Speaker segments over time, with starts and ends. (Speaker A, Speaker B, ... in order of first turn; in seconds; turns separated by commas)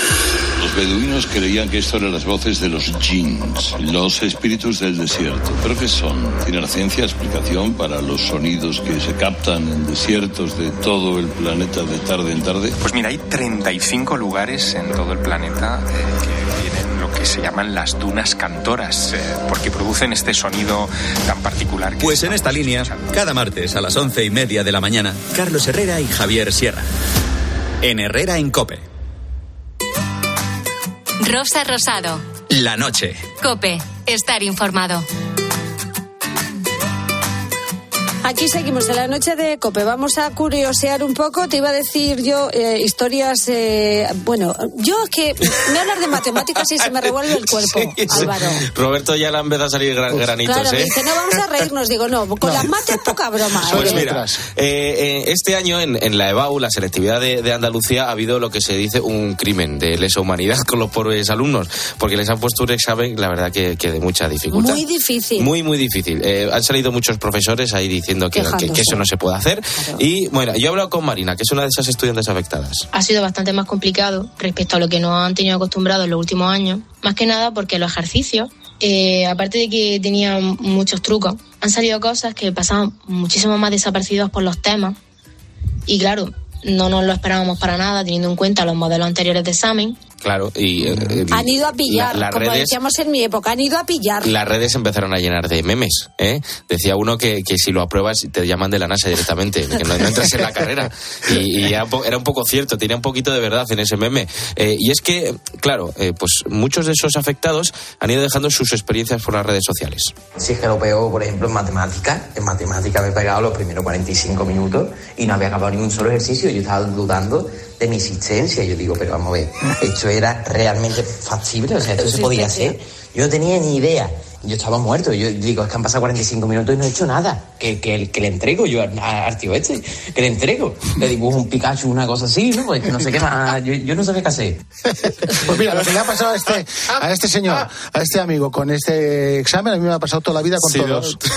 Speaker A: 0.6-12.8, Speaker B: 12.9-15.8, Speaker B: 16.6-22.9, Speaker C: 22.0-26.8, Speaker C: 27.8-28.8, Speaker D: 31.2-32.2, Speaker C: 32.5-33.3, Speaker D: 33.4-35.0, Speaker E: 38.2-48.6, Speaker F: 47.6-50.9, Speaker E: 50.4-54.0, Speaker G: 52.4-52.7, Speaker G: 53.6-54.4, Speaker F: 53.6-64.8, Speaker E: 64.5-65.5, Speaker F: 65.4-72.9, Speaker E: 68.3-69.0, Speaker H: 72.9-85.0, Speaker H: 85.9-90.0, Speaker F: 90.2-92.7, Speaker G: 90.8-91.2, Speaker E: 91.3-94.3, Speaker F: 94.2-110.1, Speaker I: 110.4-134.6, Speaker E: 122.2-122.8, Speaker G: 135.0-141.2, Speaker F: 140.6-141.2